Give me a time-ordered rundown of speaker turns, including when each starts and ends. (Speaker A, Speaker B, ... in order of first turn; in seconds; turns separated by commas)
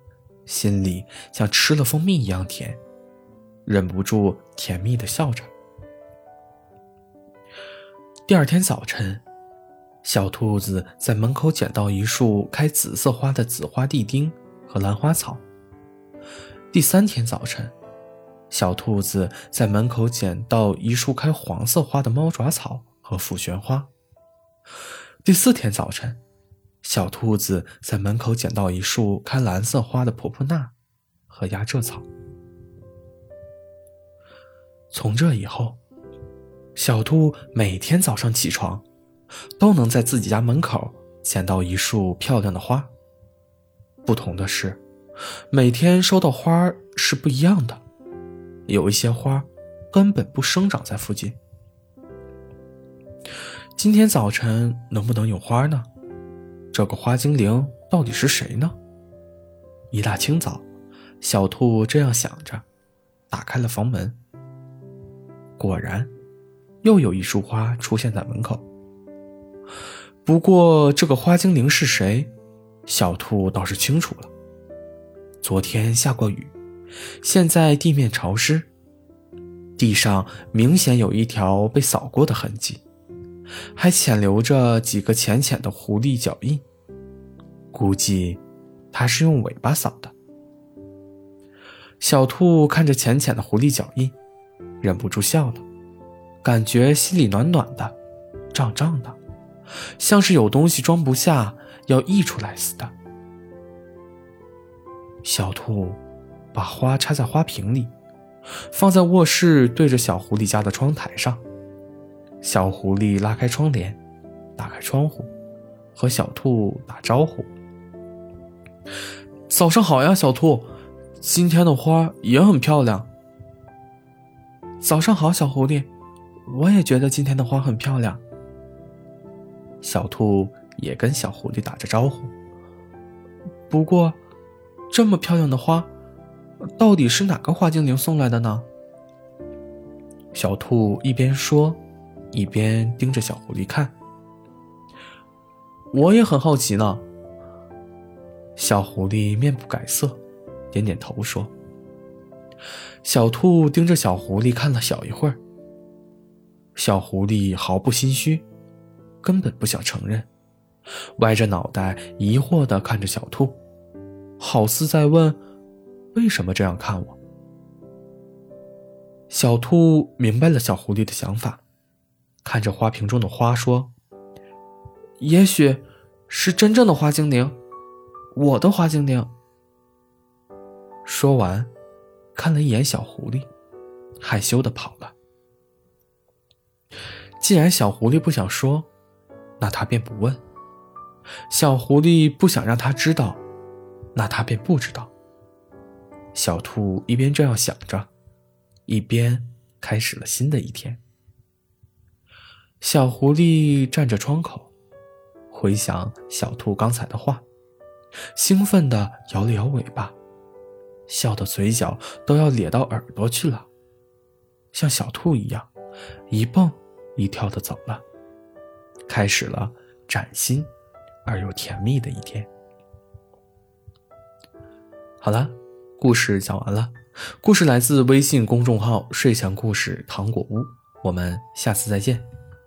Speaker A: 0.5-2.8, Speaker A: 3.7-5.5, Speaker A: 8.3-9.2, Speaker A: 10.0-15.4, Speaker A: 16.7-17.8, Speaker A: 18.5-23.9, Speaker A: 25.2-26.2, Speaker A: 26.8-30.7, Speaker A: 31.3-32.1, Speaker A: 34.9-35.8, Speaker A: 36.8-38.9, Speaker A: 39.6-42.9, Speaker A: 44.0-44.8, Speaker A: 45.5-47.8, Speaker A: 48.7-51.4, Speaker A: 53.8-55.9, Speaker A: 56.7-58.8, Speaker A: 59.9-60.7, Speaker A: 61.2-62.7, Speaker A: 63.3-64.2, Speaker A: 65.6-66.1, Speaker A: 66.8-68.7, Speaker A: 70.2-72.3, Speaker A: 72.9-74.3, Speaker A: 75.4-76.5, Speaker A: 77.2-78.7, Speaker A: 79.8-82.8, Speaker A: 83.8-86.6, Speaker A: 87.7-90.1, Speaker A: 92.0-94.2, Speaker A: 94.8-95.7, Speaker A: 96.4-98.0, Speaker A: 98.5-99.2, Speaker A: 100.0-103.0, Speaker A: 105.2-106.0, Speaker A: 106.5-107.9, Speaker A: 108.7-111.4, Speaker A: 112.4-114.0, Speaker A: 114.6-115.3, Speaker A: 116.0-117.5, Speaker A: 119.5-123.1, Speaker A: 124.8-125.9, Speaker A: 126.5-128.2, Speaker A: 129.8-132.3, Speaker A: 133.7-134.2, Speaker A: 134.9-135.9, Speaker A: 136.6-138.7, Speaker A: 140.3-141.8, Speaker A: 142.3-143.9, Speaker A: 145.9-147.1, Speaker A: 148.6-150.2, Speaker A: 150.7-151.5, Speaker A: 153.0-155.4, Speaker A: 156.8-158.4, Speaker A: 159.2-160.3, Speaker A: 161.2-163.6, Speaker A: 164.4-165.4, Speaker A: 166.1-167.2, Speaker A: 169.3-171.6, Speaker A: 172.4-173.9, Speaker A: 175.2-177.6, Speaker A: 178.3-179.3, Speaker A: 181.1-181.7, Speaker A: 182.3-183.5, Speaker A: 184.2-185.2, Speaker A: 187.4-188.9, Speaker A: 189.6-190.4, Speaker A: 191.5-193.4, Speaker A: 194.2-195.1, Speaker A: 196.3-198.1, Speaker A: 198.9-201.0, Speaker A: 202.8-204.7, Speaker A: 205.5-207.4, Speaker A: 208.3-210.2, Speaker A: 211.1-213.7, Speaker A: 214.7-215.7, Speaker A: 216.3-218.1, Speaker A: 219.1-220.7, Speaker A: 221.2-222.5, Speaker A: 225.2-232.3